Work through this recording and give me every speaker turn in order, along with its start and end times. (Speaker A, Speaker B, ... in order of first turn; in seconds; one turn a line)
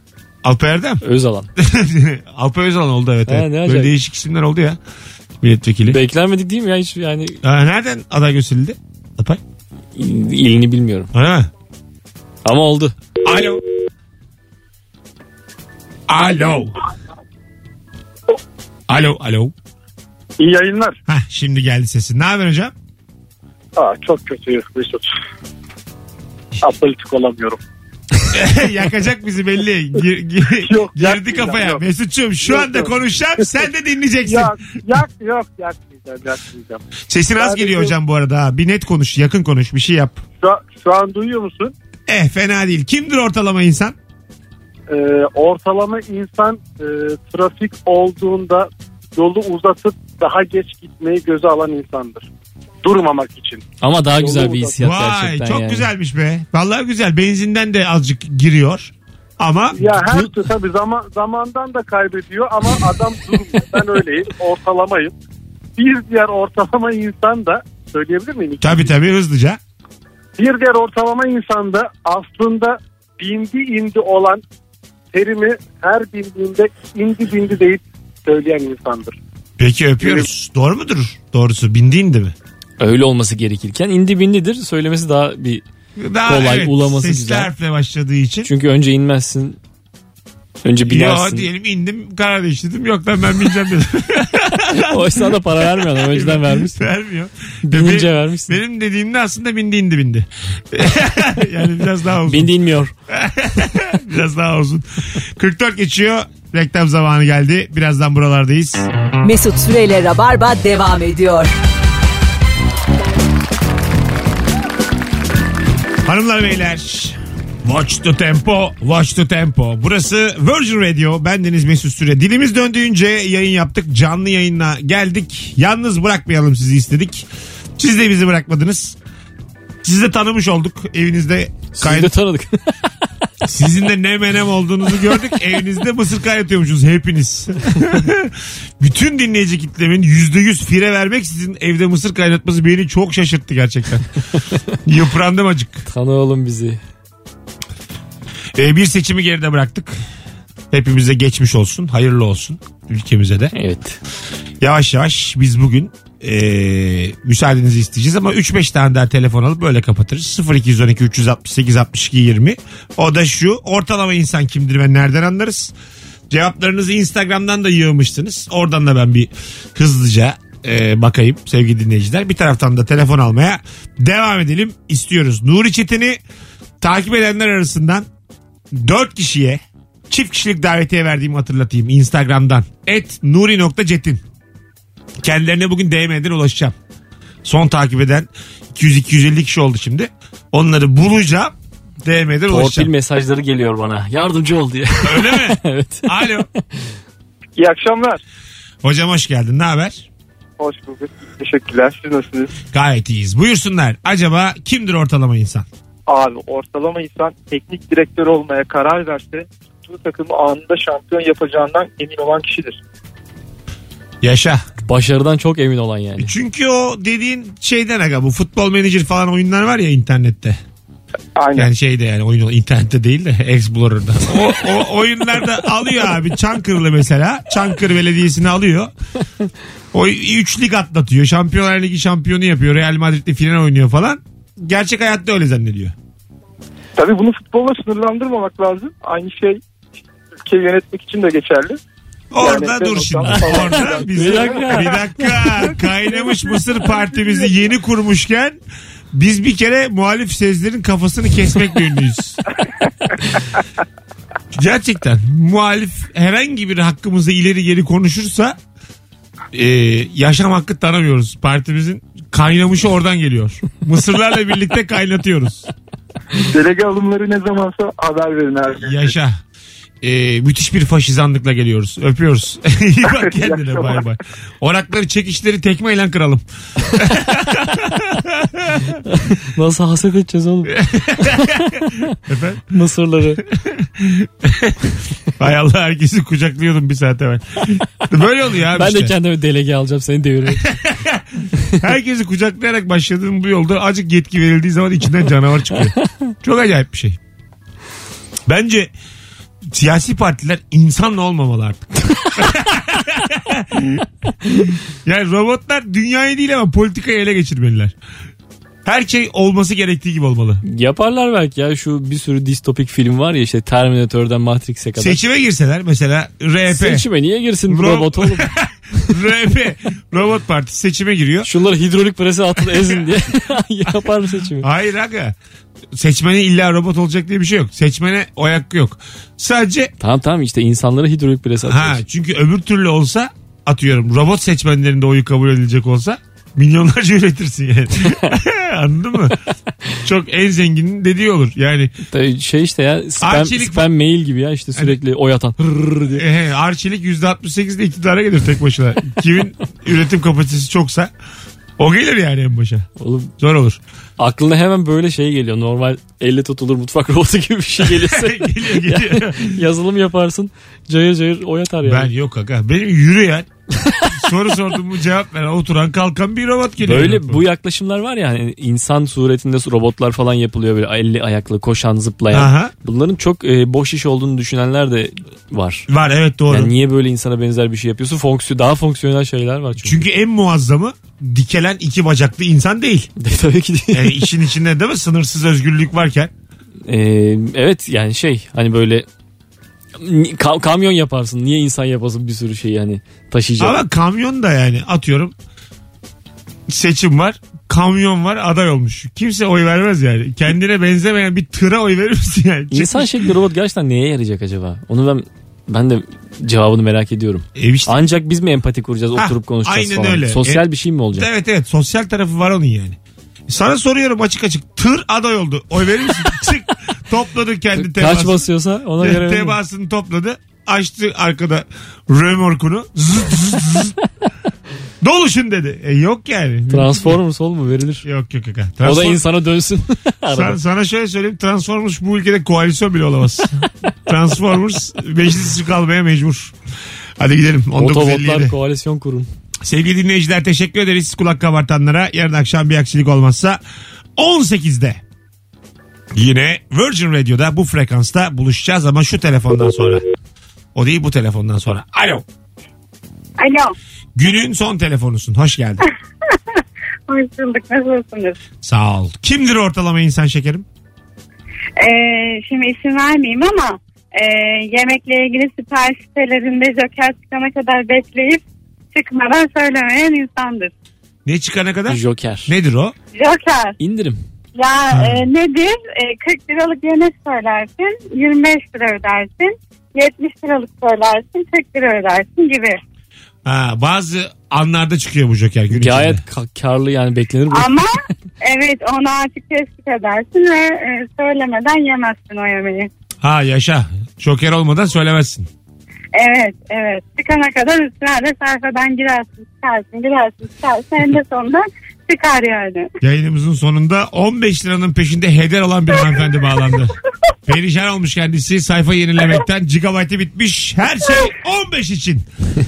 Speaker A: 0.4-1.0
Speaker B: 1.0-1.5
Speaker A: 1.6-4.8
Speaker B: 3.3-4.0
Speaker A: 5.4-6.0
Speaker B: 5.9-7.4
Speaker A: 7.4-9.4
Speaker B: 10.0-11.1
Speaker A: 11.1-11.5
Speaker B: 12.4-12.9
Speaker A: 13.2-13.6
Speaker A: 16.1-16.8
Speaker A: 18.9-19.5
Speaker C: 20.4-21.0
Speaker A: 21.1-22.7
Speaker C: 23.8-25.1
Speaker C: 26.6-27.6
Speaker A: 28.3-34.5
Speaker C: 30.6-31.8
Speaker C: 32.4-32.9
Speaker C: 34.2-36.8
Speaker A: 37.1-40.2
Speaker C: 37.4-37.9
Speaker C: 40.4-41.7
Speaker A: 42.1-44.0
Speaker C: 44.9-52.3
Speaker C: 52.8-54.8
Speaker B: 53.8-55.9
Speaker A: 54.8-59.9
Speaker C: 59.8-65.1
Speaker B: 59.8-60.3
Speaker C: 65.8-69.0
Speaker A: 68.6-69.6
Speaker C: 70.4-74.4
Speaker C: 75.1-79.2
Speaker A: 79.6-82.3
Speaker C: 80.0-80.3
Speaker B: 82.8-85.6
Speaker A: 86.0-88.5
Speaker B: 86.2-87.5
Speaker B: 88.5-89.6
Speaker B: 90.6-91.5
Speaker A: 90.8-102.5
Speaker B: 94.8-96.9
Speaker B: 97.7-98.6
Speaker B: 102.3-102.9
Speaker A: 103.1-108.9
Speaker D: 109.2-111.5
Speaker A: 116.0-129.0
Speaker A: 129.8-132.1
Speaker B: 131.7-132.9
Speaker A: 133.4-144.1
Speaker A: 144.8-145.8
Speaker B: 145.9-146.8
Speaker A: 148.6-150.0
Speaker A: 150.7-153.5
Speaker B: 153.5-154.0
Speaker A: 154.6-165.7
Speaker A: 166.3-176.2
Speaker A: 176.8-178.1
Speaker A: 178.7-184.2
Speaker A: 185.2-186.8
Speaker A: 187.4-192.9
Speaker B: 192.5-196.8
Speaker A: 195.0-196.5
Speaker E: 197.6-198.2
Speaker A: 198.8-200.1
Speaker E: 200.6-202.5
Speaker A: 202.7-205.7
Speaker E: 206.1-212.8
Speaker A: 214.2-214.7
Speaker B: 214.9-216.3
Speaker A: 216.2-220.6
Speaker E: 221.4-221.7
Speaker A: 221.5-228.9
Speaker A: 229.9-235.9
Speaker E: 237.0-239.6
Speaker E: 240.4-241.8
Speaker A: 242.3-248.6
Speaker E: 242.4-244.9
Speaker B: 243.3-245.7
Speaker A: 249.1-252.4
Speaker A: 254.5-258.6
Speaker A: 259.5-265.7
Speaker E: 266.5-268.9
Speaker A: 268.8-269.4
Speaker A: 270.0-279.0
Speaker E: 273.1-274.1
Speaker B: 279.1-282.1
Speaker A: 280.7-282.6
Speaker B: 282.7-283.4
Speaker A: 283.5-289.1
Speaker B: 288.8-290.6
Speaker A: 290.5-297.2
Speaker A: 298.5-298.9
Speaker A: 299.7-307.9
Speaker A: 308.9-310.6
Speaker B: 310.6-315.2
Speaker A: 315.0-317.1
Speaker B: 316.7-319.1
Speaker A: 317.7-321.5
Speaker B: 321.4-324.7
Speaker A: 322.6-323.3
Speaker A: 323.9-325.4
Speaker A: 325.9-329.9
Speaker B: 330.0-332.0
Speaker A: 331.7-339.4
Speaker B: 338.0-338.4
Speaker A: 340.0-341.9
Speaker B: 342.1-346.2
Speaker A: 343.2-343.9
Speaker A: 346.1-351.1
Speaker A: 351.8-353.8
Speaker B: 353.0-353.3
Speaker B: 354.2-362.1
Speaker A: 357.8-359.6
Speaker A: 361.9-363.5
Speaker A: 364.1-367.4
Speaker B: 366.8-375.9
Speaker A: 372.3-372.7
Speaker A: 375.9-376.7
Speaker B: 376.5-380.0
Speaker A: 379.8-383.1
Speaker B: 383.2-384.3
Speaker A: 383.9-386.3
Speaker B: 386.9-389.1
Speaker B: 390.0-393.8
Speaker A: 393.6-395.3
Speaker A: 396.7-403.3
Speaker B: 402.7-411.3
Speaker A: 407.6-408.1
Speaker A: 409.2-418.5
Speaker B: 417.8-419.6
Speaker A: 419.0-424.0
Speaker A: 425.0-427.2
Speaker B: 426.7-428.1
Speaker A: 428.0-429.3
Speaker B: 428.8-430.6
Speaker A: 430.3-436.5
Speaker A: 437.2-438.5
Speaker B: 437.8-439.3
Speaker A: 439.6-443.6
Speaker A: 444.2-445.0
Speaker A: 446.1-450.0
Speaker A: 450.8-452.2
Speaker F: 453.4-453.7
Speaker A: 454.2-455.8
Speaker F: 457.1-458.4
Speaker A: 458.6-460.6
Speaker F: 461.8-468.4
Speaker F: 468.9-470.7
Speaker A: 471.2-472.9
Speaker B: 471.9-472.5
Speaker F: 473.1-473.8
Speaker B: 473.8-474.2
Speaker F: 474.6-482.8
Speaker A: 474.9-475.2
Speaker A: 483.4-486.2
Speaker B: 485.7-487.7
Speaker F: 487.5-492.9
Speaker A: 493.2-495.5
Speaker F: 496.1-502.9
Speaker A: 503.0-506.9
Speaker F: 506.0-506.2
Speaker A: 507.5-512.3